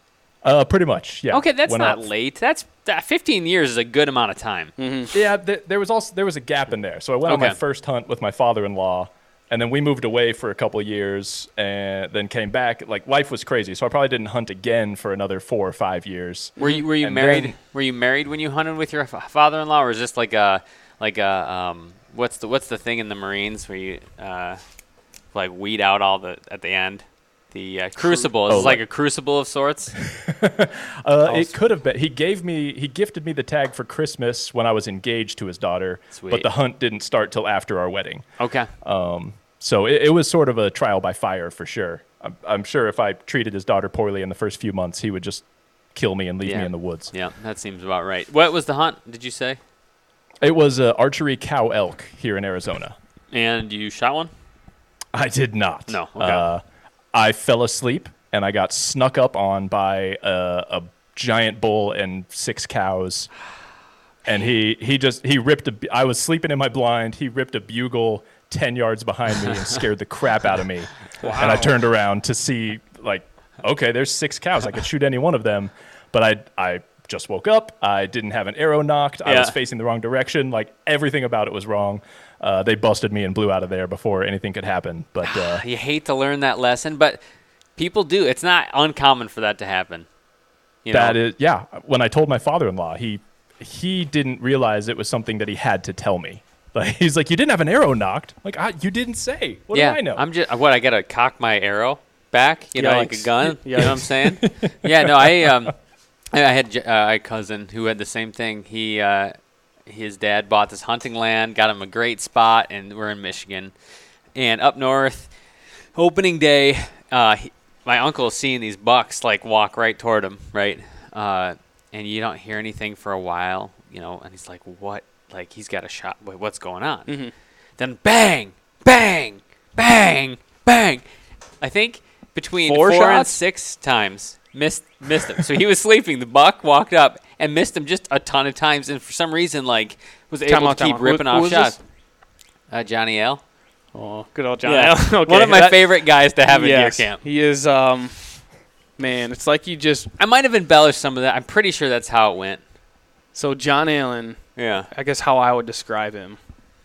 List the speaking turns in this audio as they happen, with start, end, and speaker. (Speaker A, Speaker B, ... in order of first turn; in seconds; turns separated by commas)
Speaker A: 0.4-2.1, Speaker B: 1.3-4.7, Speaker C: 4.8-5.1, Speaker A: 5.1-17.6, Speaker B: 7.3-7.6, Speaker C: 16.6-16.8, Speaker B: 16.6-24.6, Speaker B: 25.3-30.0, Speaker A: 28.5-28.8, Speaker A: 30.0-38.3, Speaker C: 31.3-31.5, Speaker B: 36.1-36.5, Speaker B: 38.4-38.7, Speaker A: 38.8-47.1, Speaker B: 46.4-49.6, Speaker A: 50.4-53.0, Speaker B: 53.3-54.3, Speaker A: 55.1-63.3, Speaker B: 55.9-56.5, Speaker A: 64.2-85.6, Speaker C: 71.2-71.7, Speaker B: 79.2-79.5, Speaker B: 85.2-87.2, Speaker B: 87.8-90.1, Speaker B: 90.8-91.2, Speaker A: 90.9-100.2, Speaker B: 99.7-105.8, Speaker C: 102.8-104.0, Speaker A: 103.8-105.7, Speaker B: 106.3-109.3, Speaker B: 109.9-113.7, Speaker B: 114.3-115.3, Speaker B: 116.0-127.1, Speaker C: 127.1-127.3, Speaker B: 127.8-131.1, Speaker B: 131.6-141.8, Speaker C: 132.7-133.4, Speaker C: 140.5-141.8, Speaker B: 142.7-143.4, Speaker C: 143.9-148.4, Speaker B: 144.6-147.2, Speaker C: 149.0-150.1, Speaker B: 150.2-152.6, Speaker C: 153.3-156.4, Speaker B: 154.6-154.9